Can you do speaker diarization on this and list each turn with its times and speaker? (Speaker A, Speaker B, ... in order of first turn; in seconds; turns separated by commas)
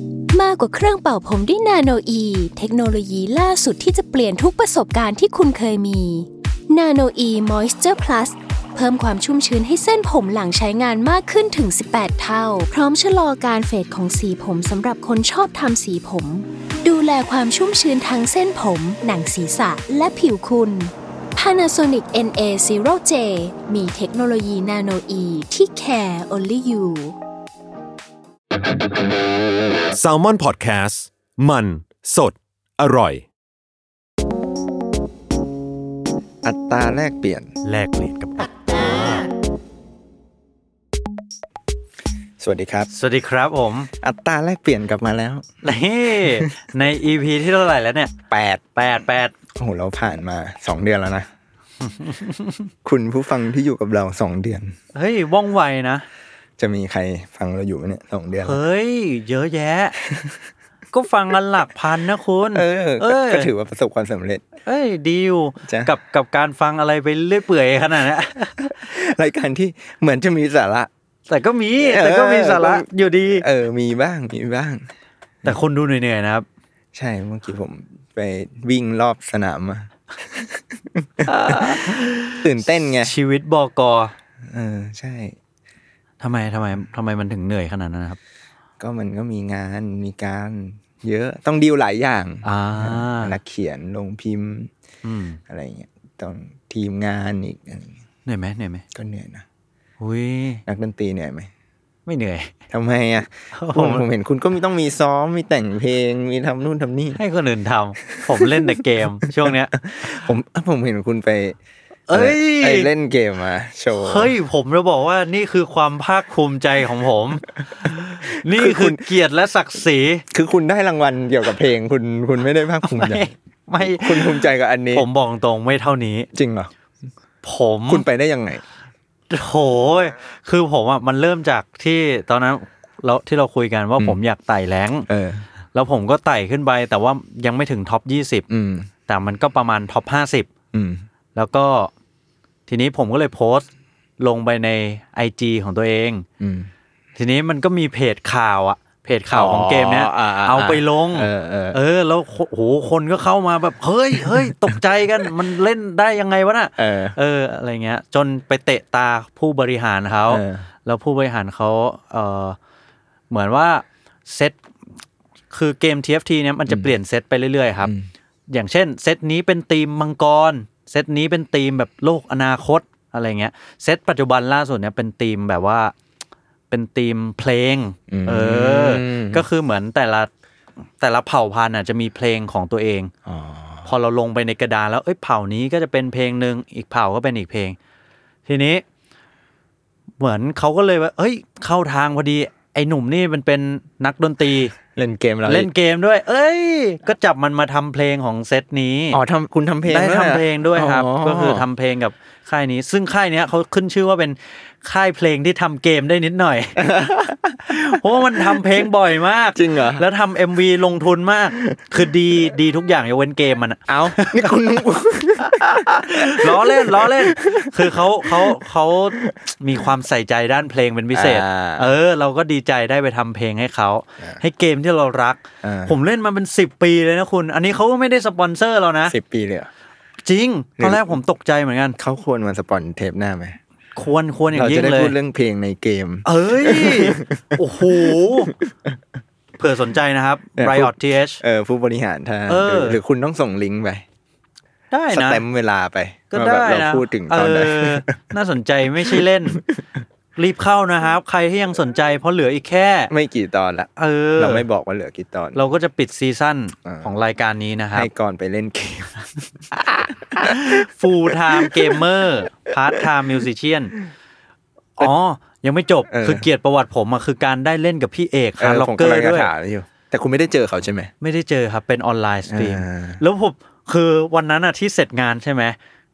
Speaker A: 0.3-27.2, Speaker B: 29.9-33.3, Speaker C: 36.4-37.5, Speaker D: 37.6-39.3, Speaker C: 42.4-42.9, Speaker D: 42.9-43.9, Speaker C: 44.0-45.5, Speaker D: 45.6-48.1, Speaker C: 48.3-48.7, Speaker D: 48.7-49.3, Speaker C: 49.5-51.3, Speaker D: 51.9-52.6, Speaker C: 52.8-54.7, Speaker D: 54.9-56.1, Speaker C: 56.6-58.6, Speaker D: 58.4-60.0, Speaker C: 60.0-60.4, Speaker D: 60.9-63.5, Speaker C: 62.5-64.4, Speaker D: 64.7-68.7, Speaker C: 65.6-65.9, Speaker C: 68.6-70.9, Speaker D: 71.3-73.4, Speaker C: 71.8-72.9, Speaker C: 73.4-74.8, Speaker D: 75.4-76.5, Speaker C: 76.9-83.1, Speaker D: 81.2-82.4, Speaker D: 83.0-84.1, Speaker C: 84.5-85.3, Speaker D: 86.2-88.2, Speaker C: 88.8-94.7, Speaker D: 92.4-93.3, Speaker D: 95.0-95.4, Speaker C: 95.5-97.9, Speaker D: 98.2-98.8, Speaker C: 98.9-99.4, Speaker D: 100.0-100.6, Speaker C: 100.7-101.5, Speaker D: 102.0-102.5, Speaker C: 102.7-107.2, Speaker D: 103.5-104.0, Speaker D: 107.1-110.2, Speaker C: 108.3-108.7, Speaker C: 109.2-111.5, Speaker D: 112.1-112.9, Speaker C: 112.1-114.3, Speaker D: 113.9-120.2, Speaker C: 117.8-119.0, Speaker C: 120.3-125.0, Speaker D: 122.8-126.3, Speaker C: 126.3-126.7, Speaker D: 127.4-128.1, Speaker C: 127.9-128.6, Speaker D: 129.3-135.1, Speaker C: 135.1-135.4, Speaker D: 135.7-138.4, Speaker C: 138.5-138.9, Speaker D: 139.1-140.5, Speaker C: 140.7-141.0, Speaker D: 141.3-141.9, Speaker D: 142.7-143.7, Speaker D: 144.2-146.2, Speaker C: 146.4-146.7, Speaker D: 147.2-162.6, Speaker C: 149.3-151.8, Speaker C: 154.2-154.7, Speaker C: 156.8-157.2, Speaker C: 160.3-160.7, Speaker D: 163.3-164.6, Speaker D: 165.5-167.9, Speaker C: 167.8-168.1, Speaker D: 168.5-175.9, Speaker D: 176.7-180.3, Speaker C: 178.1-179.5, Speaker D: 181.0-183.1, Speaker C: 183.2-183.9, Speaker D: 183.9-187.8, Speaker D: 188.5-188.8, Speaker D: 190.2-194.8, Speaker C: 195.0-195.7, Speaker D: 195.4-199.2, Speaker C: 199.1-201.7, Speaker D: 199.9-206.8, Speaker C: 206.8-207.8, Speaker D: 207.7-214.5, Speaker C: 209.6-210.0, Speaker C: 213.9-218.6, Speaker D: 215.5-229.1, Speaker C: 221.1-221.9, Speaker C: 225.6-225.9, Speaker C: 229.1-229.7, Speaker D: 230.2-232.0, Speaker C: 230.8-231.2, Speaker C: 232.0-233.6, Speaker D: 234.0-235.1, Speaker C: 234.5-239.0, Speaker D: 236.2-238.5, Speaker D: 239.6-241.4, Speaker C: 240.6-244.0, Speaker D: 242.5-243.0, Speaker D: 244.9-245.4, Speaker C: 245.1-248.2, Speaker D: 246.3-249.6, Speaker C: 249.1-249.8, Speaker D: 250.4-253.1, Speaker C: 253.1-255.7, Speaker D: 254.0-254.6, Speaker D: 255.5-258.1, Speaker C: 256.8-257.1, Speaker C: 257.9-261.9, Speaker D: 260.4-263.9, Speaker D: 265.0-269.5, Speaker C: 266.1-266.4, Speaker C: 268.6-271.1, Speaker D: 271.2-275.8, Speaker C: 272.5-273.2